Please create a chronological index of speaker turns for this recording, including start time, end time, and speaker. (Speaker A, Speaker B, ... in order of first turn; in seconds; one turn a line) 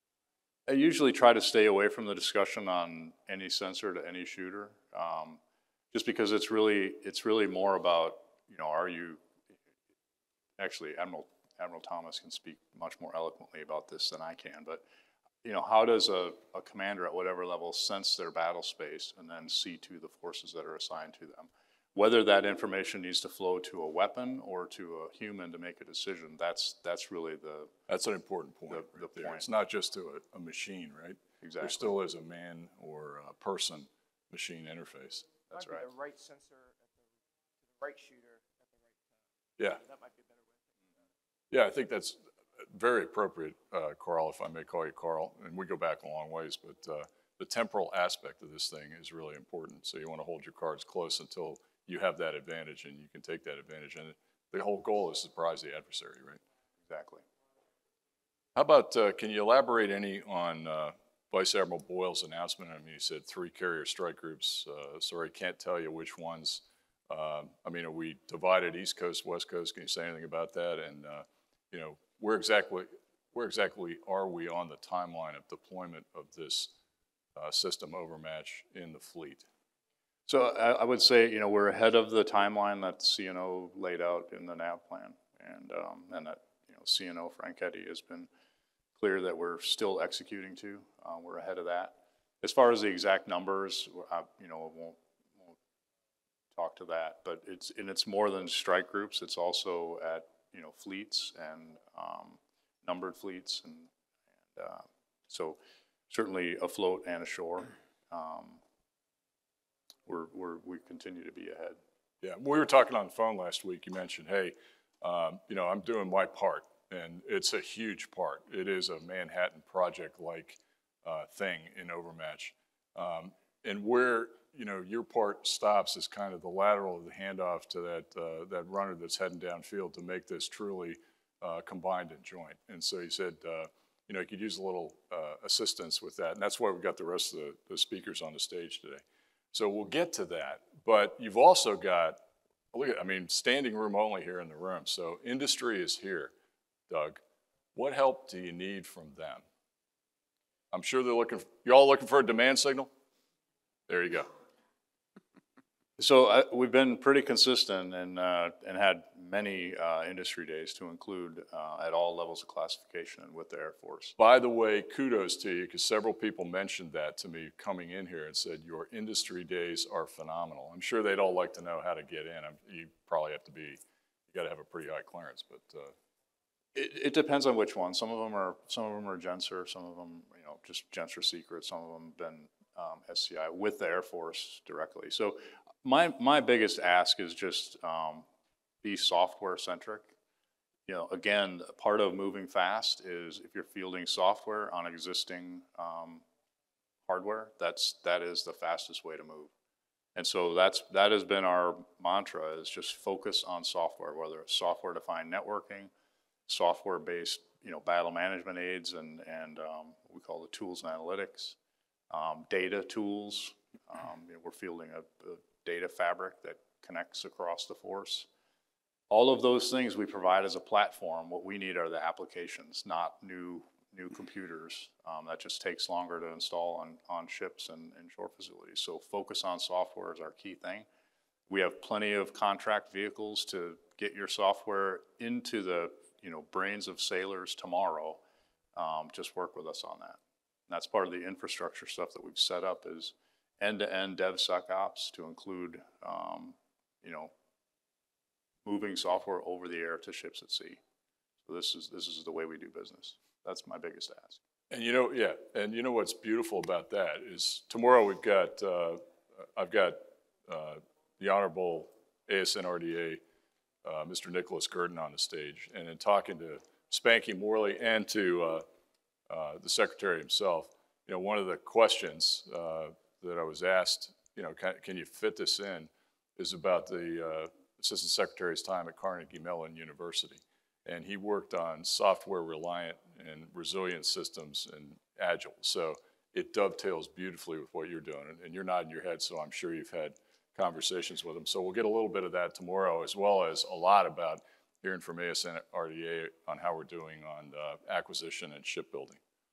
Speaker A: 0.7-5.4
Speaker A: 5.9-9.2
Speaker A: 10.6-14.8
Speaker A: 15.4-27.7
Speaker B: 27.9-35.3
Speaker A: 28.7-29.4
Speaker A: 31.4-31.9
Speaker A: 35.5-35.9
Speaker C: 35.5-37.1
Speaker C: 37.7-40.7
Speaker B: 41.5-42.2
Speaker B: 42.7-56.4
Speaker A: 56.9-57.2
Speaker B: 58.6-76.7
Speaker B: 77.4-79.5
Speaker A: 80.3-88.3
Speaker A: 89.0-95.5
Speaker A: 96.5-103.9
Speaker A: 104.5-105.6
Speaker A: 106.1-108.6
Speaker A: 110.1-111.8
Speaker B: 112.2-142.2
Speaker B: 142.7-146.3
Speaker B: 146.9-147.2
Speaker B: 147.8-149.4
Speaker B: 150.7-152.9
Speaker B: 153.9-154.3
Speaker A: 156.0-164.2
Speaker B: 164.2-173.8
Speaker B: 174.3-175.9
Speaker A: 176.8-188.2
Speaker A: 188.8-190.1
Speaker A: 190.9-196.2
Speaker A: 197.1-199.5
Speaker A: 200.2-205.9
Speaker A: 206.5-211.6
Speaker A: 212.1-218.3
Speaker A: 219.1-230.9
Speaker A: 231.5-238.2
Speaker A: 238.8-247.3
Speaker A: 248.6-250.8
Speaker A: 251.5-254.4
Speaker B: 254.7-259.0
Speaker B: 259.6-263.2
Speaker B: 263.8-268.6
Speaker B: 269.3-299.2